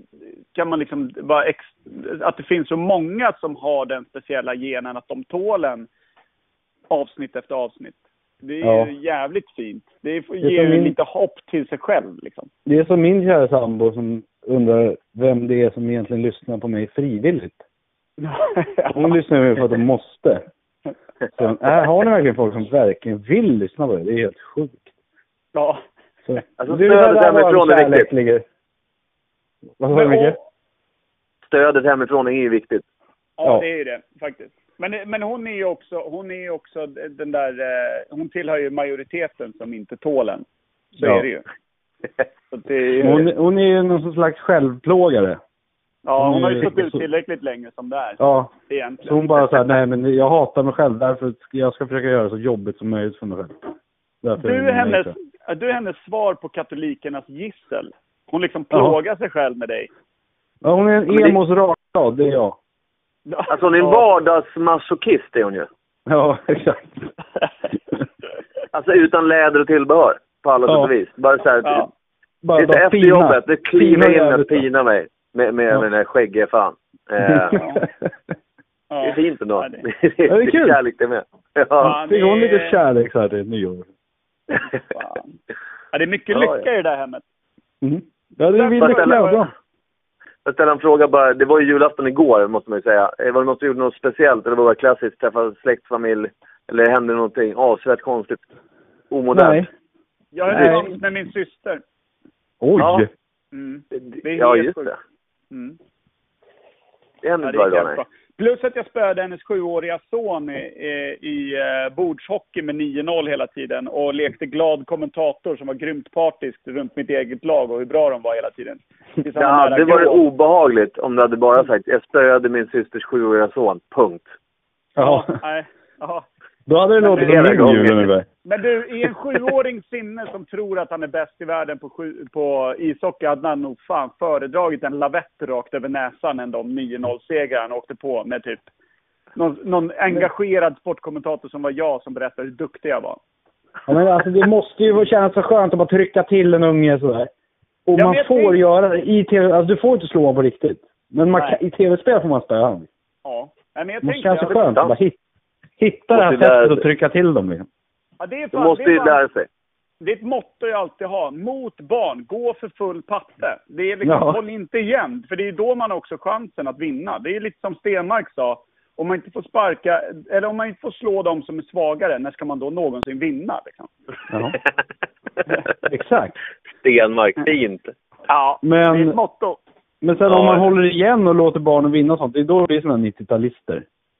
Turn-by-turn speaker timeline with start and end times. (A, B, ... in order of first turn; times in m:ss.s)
0:00.5-0:05.9 A
0:06.9-0:12.5 A
0:08.6-0:08.9 B
0:10.4-0:11.0 B
0:12.6-0:17.6 B
0:18.2-0:18.9 A
0:18.9-0:20.4 B
0:21.4-0:24.9 B
0:25.5-0:25.8 A
0:26.2-0:28.4 B
0:26.6-0:28.1 C
0:29.8-0:30.4 B
0:29.9-0:30.4 A
0:31.4-0:32.8 C
0:33.4-0:41.4 A
0:41.0-0:41.2 B
0:42.5-0:43.3 A
0:43.0-0:45.4 B
0:46.0-0:49.6 A
0:46.2-0:47.0 B
0:48.2-0:48.5 B
0:49.0-0:53.5 B
0:54.2-0:55.1 B
0:54.4-0:59.9 A
0:58.7-0:59.0 B
1:00.6-1:02.6 B
1:01.1-1:01.4 C
1:03.3-1:04.1 A
1:03.5-1:05.7 C
1:06.1-1:07.1 B
1:08.7-1:11.8 C
1:10.7-1:10.9 B
1:11.6-1:11.9 A
1:12.4-1:14.6 B
1:12.6-1:17.6 C
1:17.2-1:17.5 B
1:17.5-1:17.8 A
1:18.9-1:19.9 A
1:19.0-1:22.0 C
1:20.3-1:20.8 B
1:21.8-1:22.8 A
1:22.0-1:23.9 B
1:24.7-1:25.3 A
1:25.9-1:27.2 A
1:26.3-1:26.6 C
1:27.8-1:29.5 B
1:28.5-1:29.4 A
1:28.8-1:29.2 C
1:30.4-1:38.4 C
1:39.1-1:39.7 C
1:39.3-1:39.7 B
1:40.3-1:41.8 A
1:40.5-1:40.9 B
1:40.5-1:40.8 C
1:42.6-1:43.1 B
1:42.8-1:43.0 C
1:43.5-1:44.9 A
1:43.9-1:45.0 C
1:45.5-1:45.8 A
1:47.2-1:48.0 C
1:47.4-2:00.2 A
1:59.4-2:04.3 C
2:05.0-2:05.3 B
2:05.0-2:06.2 A
2:06.7-2:08.2 B
2:07.0-2:18.6 A
2:07.1-2:08.1 C
2:19.4-2:23.2 A
2:23.9-2:27.3 B
2:27.8-2:32.9 B
2:28.0-2:28.6 A
2:31.3-2:31.6 A
2:33.2-2:34.6 A
2:34.0-2:35.2 B
2:34.6-2:34.9 C
2:35.8-2:37.6 B
2:36.1-2:36.8 C
2:38.2-2:39.2 A
2:38.5-2:39.5 C
2:40.0-2:53.9 A
2:44.0-2:44.4 B
2:54.3-2:54.6 B
2:55.8-2:56.4 B
2:56.8-2:57.9 C
2:58.3-2:59.6 A
2:58.6-2:59.2 B
3:00.0-3:03.8 B
3:00.3-3:00.6 C